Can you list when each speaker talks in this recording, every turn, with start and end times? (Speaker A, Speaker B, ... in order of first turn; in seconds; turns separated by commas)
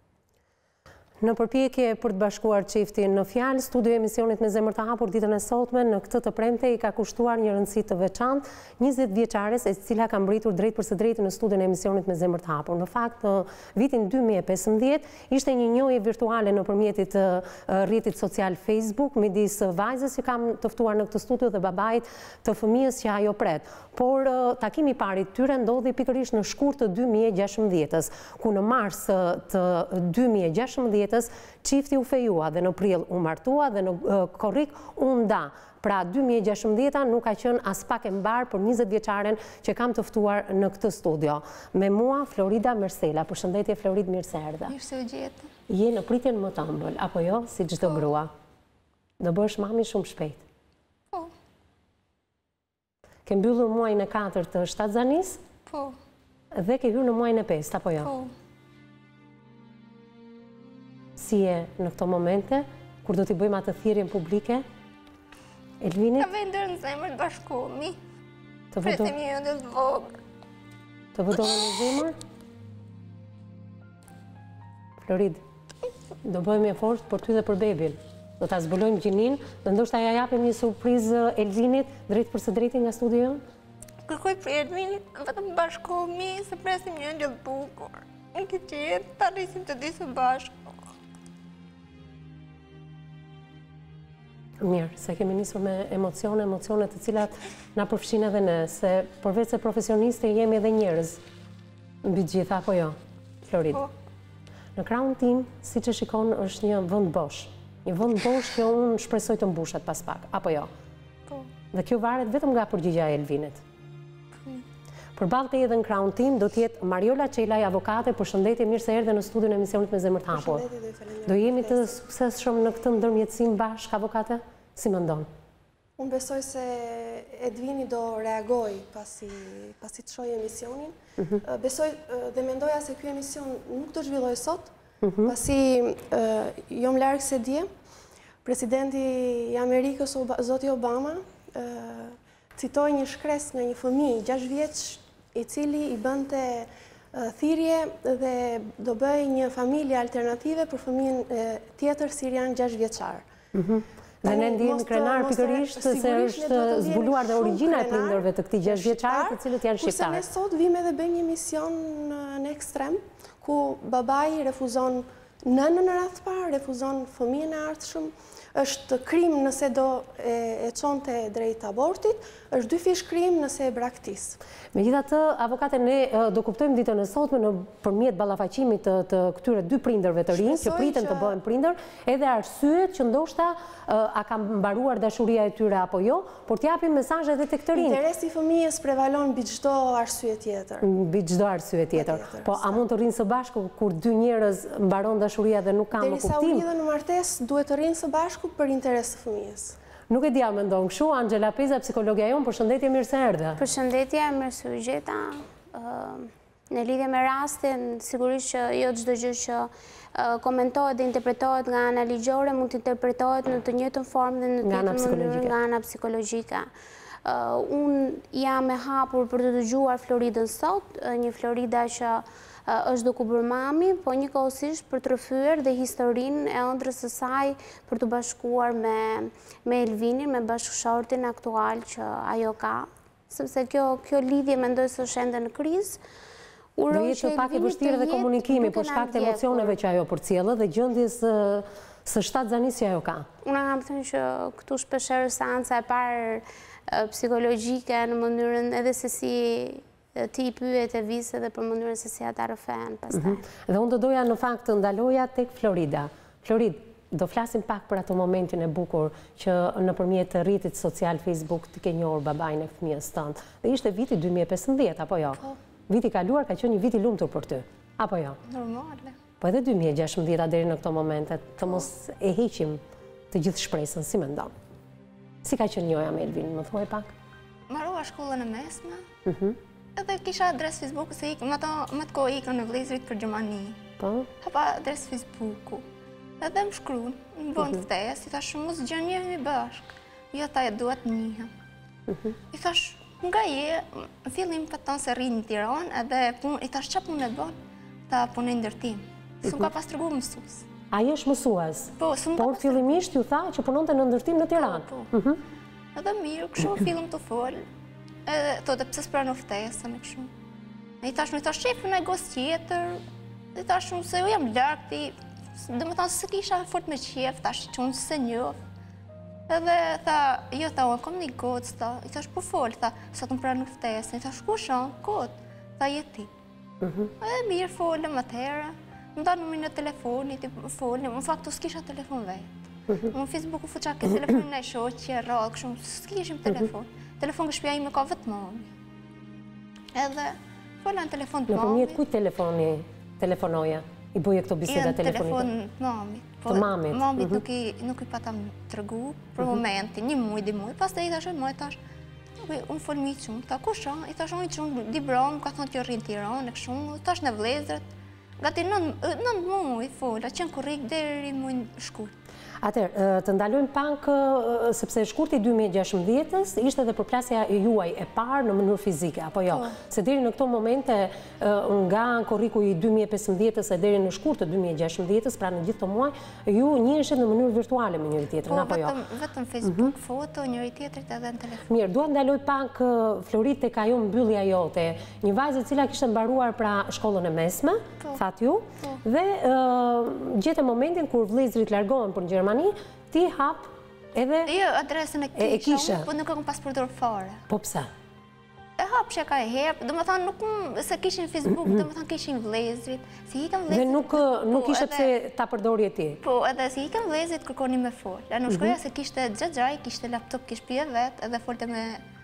Speaker A: 1.2-44.7, Speaker B: 44.6-45.5, Speaker A: 45.7-48.3, Speaker A: 49.2-50.4, Speaker A: 53.2-55.4, Speaker B: 55.7-56.0, Speaker A: 56.5-58.1, Speaker B: 58.0-58.3, Speaker A: 61.2-64.6, Speaker A: 65.8-66.3, Speaker B: 66.2-68.0, Speaker A: 68.7-69.1, Speaker B: 68.8-70.2, Speaker A: 71.1-72.2, Speaker A: 75.0-75.4, Speaker A: 76.2-83.4, Speaker B: 84.0-90.7, Speaker A: 94.6-101.2, Speaker A: 102.0-103.8, Speaker A: 104.8-110.7, Speaker A: 111.7-113.6, Speaker A: 115.2-120.7, Speaker C: 120.3-121.9, Speaker A: 121.2-125.3, Speaker C: 126.0-134.7, Speaker A: 131.2-131.4, Speaker A: 135.0-135.3, Speaker C: 135.2-137.7, Speaker C: 138.4-153.3, Speaker A: 153.5-160.2, Speaker C: 154.2-174.4, Speaker A: 174.7-188.0, Speaker C: 180.3-181.3, Speaker C: 187.7-190.8, Speaker A: 190.8-196.7, Speaker C: 191.9-192.8, Speaker C: 196.0-199.8, Speaker A: 200.1-203.6, Speaker D: 203.6-216.7, Speaker A: 214.6-215.6, Speaker D: 217.2-236.0, Speaker D: 236.8-239.7, Speaker A: 236.9-243.3, Speaker D: 243.4-253.4, Speaker A: 253.1-268.4, Speaker B: 268.4-269.1, Speaker A: 269.4-274.5, Speaker A: 275.4-277.1, Speaker B: 277.7-279.0, Speaker A: 279.2-279.6, Speaker B: 279.9-283.8, Speaker A: 284.0-284.3, Speaker B: 284.4-285.8, Speaker B: 286.4-291.5, Speaker A: 292.1-292.4, Speaker B: 292.5-297.6, Speaker B: 298.1-300.6, Speaker A: 300.9-305.4, Speaker B: 302.0-303.0, Speaker B: 304.5-305.1, Speaker B: 305.9-307.6, Speaker B: 308.2-310.3, Speaker B: 311.0-313.0, Speaker B: 313.5-318.6, Speaker B: 319.5-326.3, Speaker A: 326.8-327.1, Speaker B: 327.2-338.7, Speaker A: 332.9-333.1, Speaker B: 339.9-342.0, Speaker A: 341.5-345.5, Speaker B: 344.7-351.8, Speaker A: 346.5-347.4, Speaker B: 352.4-357.8, Speaker B: 358.4-362.1, Speaker A: 362.6-378.9, Speaker B: 369.5-369.8, Speaker B: 378.4-381.7, Speaker A: 379.6-379.9, Speaker A: 381.7-394.5, Speaker B: 394.4-397.4, Speaker A: 395.4-396.1, Speaker A: 397.5-397.9, Speaker B: 398.8-405.1, Speaker A: 403.7-406.2, Speaker B: 406.2-412.0, Speaker A: 408.5-408.8